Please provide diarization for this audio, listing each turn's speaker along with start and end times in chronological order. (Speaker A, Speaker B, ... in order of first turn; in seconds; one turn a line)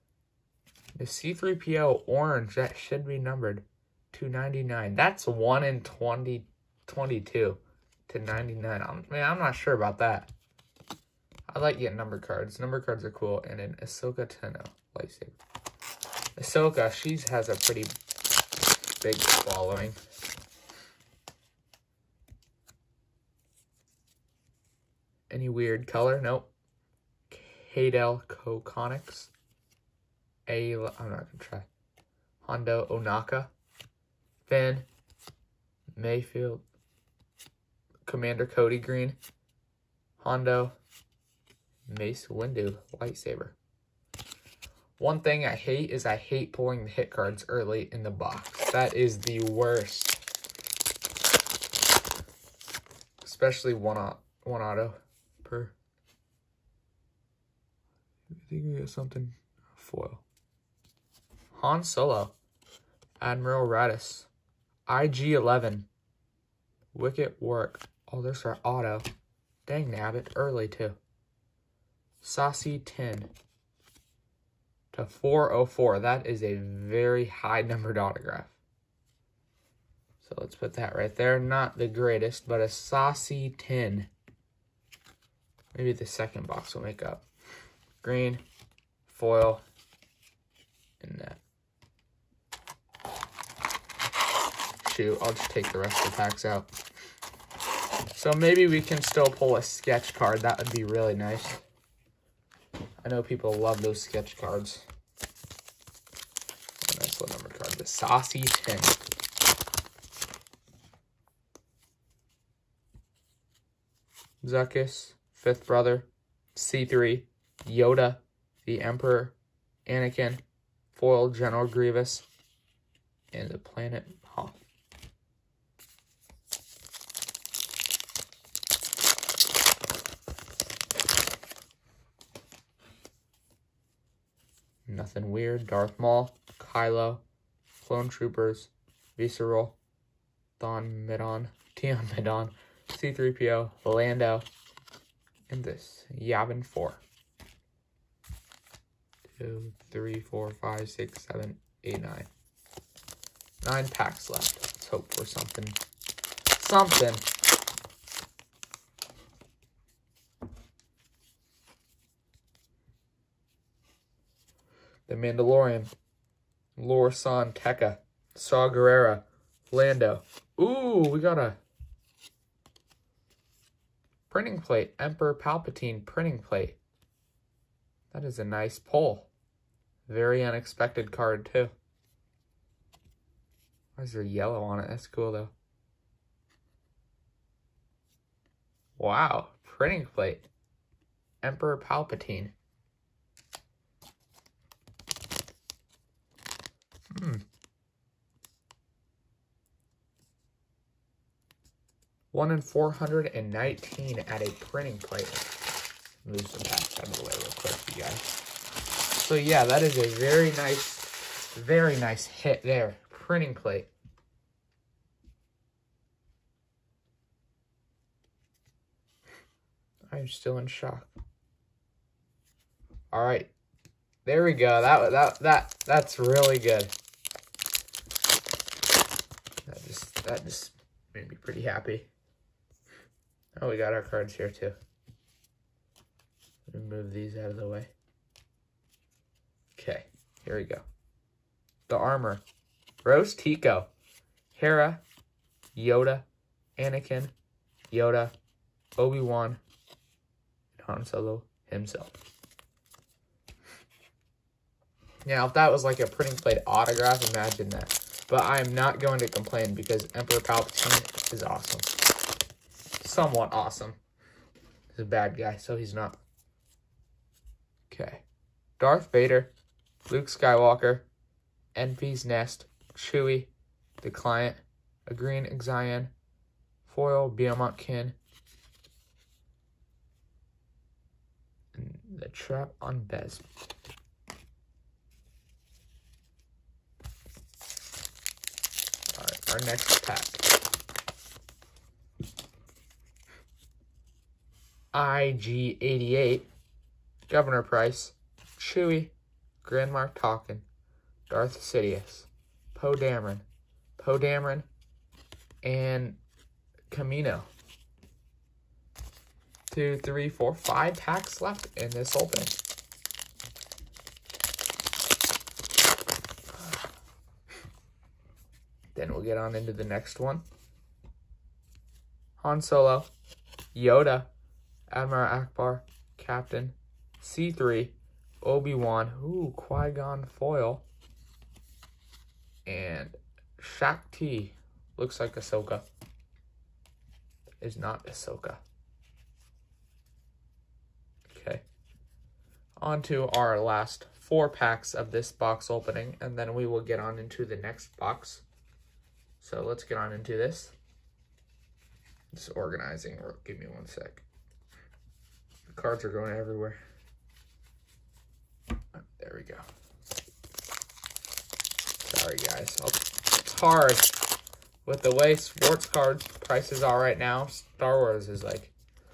Speaker A: 1.0-10.3
Speaker A: 11.5-15.4
Speaker A: 16.4-17.9
Speaker A: 19.0-20.0
Speaker A: 25.3-26.5
Speaker A: 27.3-29.3
Speaker A: 30.5-31.7
Speaker A: 32.4-33.5
Speaker A: 34.5-34.9
Speaker A: 36.0-36.6
Speaker A: 38.0-39.2
Speaker A: 40.2-40.8
Speaker A: 41.9-43.6
Speaker A: 45.0-50.2
Speaker A: 53.2-55.8
Speaker A: 58.4-60.2
Speaker A: 61.5-62.4
Speaker A: 63.2-64.3
Speaker A: 64.9-65.9
Speaker A: 66.9-69.1
Speaker A: 69.7-71.0
Speaker A: 72.2-73.3
Speaker A: 74.9-78.6
Speaker A: 80.2-84.1
Speaker A: 85.7-87.2
Speaker A: 88.0-88.4
Speaker A: 89.1-89.6
Speaker A: 91.0-91.4
Speaker A: 94.8-96.7
Speaker A: 98.1-101.6
Speaker A: 103.0-104.9
Speaker A: 106.8-109.0
Speaker A: 114.4-119.3
Speaker A: 119.9-122.3
Speaker A: 123.3-124.6
Speaker A: 134.9-137.2
Speaker A: 137.8-139.8
Speaker A: 140.6-144.5
Speaker A: 145.5-147.0
Speaker A: 149.3-152.3
Speaker A: 153.6-155.8
Speaker A: 156.6-157.2
Speaker A: 165.1-165.9
Speaker A: 166.8-171.6
Speaker A: 174.3-176.8
Speaker A: 178.1-179.3
Speaker A: 180.1-181.7
Speaker A: 184.0-185.5
Speaker A: 189.0-190.5
Speaker A: 191.4-192.5
Speaker A: 197.1-197.4
Speaker A: 202.3-205.6
Speaker A: 206.2-208.4
Speaker A: 209.2-213.9
Speaker A: 220.1-221.1
Speaker A: 223.1-223.5
Speaker A: 224.2-226.9
Speaker A: 229.7-232.1
Speaker A: 233.6-234.8
Speaker A: 236.7-237.9
Speaker A: 239.8-240.8
Speaker A: 241.9-242.4
Speaker A: 243.0-243.9
Speaker A: 244.5-245.0
Speaker A: 245.8-246.3
Speaker A: 246.8-247.3
Speaker A: 247.9-248.3
Speaker A: 249.0-249.6
Speaker A: 250.8-252.2
Speaker A: 255.2-262.0
Speaker A: 263.0-264.0
Speaker A: 264.9-266.2
Speaker A: 267.9-268.2
Speaker A: 268.8-269.5
Speaker A: 270.1-271.1
Speaker A: 271.8-276.1
Speaker A: 276.9-278.2
Speaker A: 281.7-283.4
Speaker A: 289.1-290.4
Speaker A: 294.9-296.5
Speaker A: 297.3-300.6
Speaker A: 301.3-303.4
Speaker A: 304.0-304.7
Speaker A: 305.6-306.2
Speaker A: 306.9-307.5
Speaker A: 309.7-312.6
Speaker A: 318.9-320.4
Speaker A: 322.4-323.1
Speaker A: 323.7-324.3
Speaker A: 324.9-330.9
Speaker A: 332.7-335.9
Speaker A: 337.6-338.6
Speaker A: 341.3-341.6
Speaker A: 342.8-348.4
Speaker A: 349.4-350.8
Speaker A: 352.3-354.2
Speaker A: 355.7-356.8
Speaker A: 358.9-359.6
Speaker A: 362.0-364.1
Speaker A: 364.9-368.7